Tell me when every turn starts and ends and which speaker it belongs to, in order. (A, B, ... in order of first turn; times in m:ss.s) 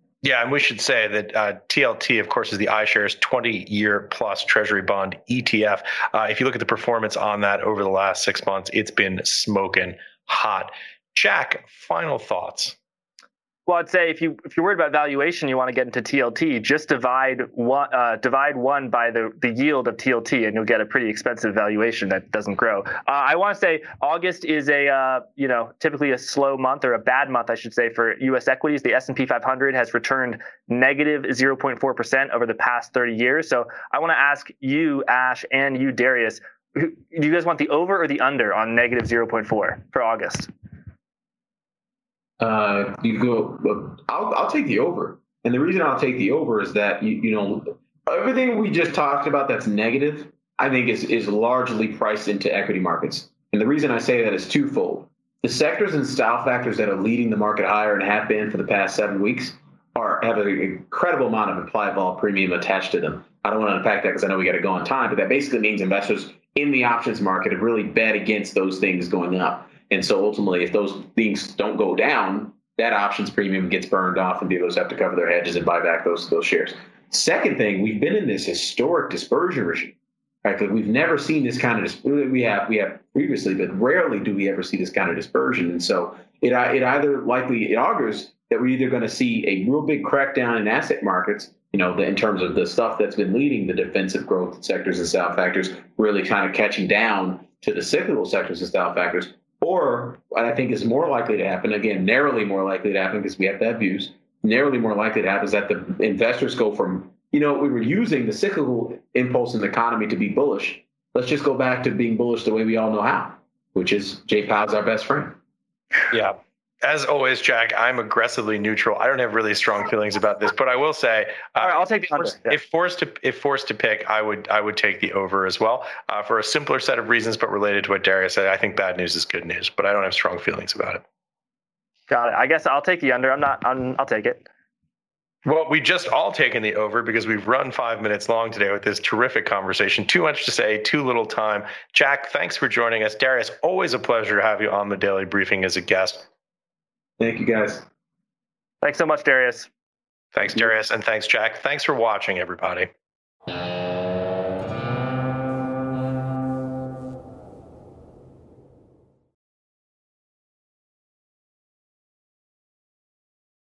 0:00.2-0:12.8 A
0:13.7-0:40.5 B
0:42.4-1:55.4 C
1:56.1-2:11.0 A
2:01.6-2:02.6 B
2:12.1-2:14.5 B
2:15.4-2:26.3 A
2:27.2-2:27.8 C
2:28.8-2:29.7 B
2:30.3-2:32.9 A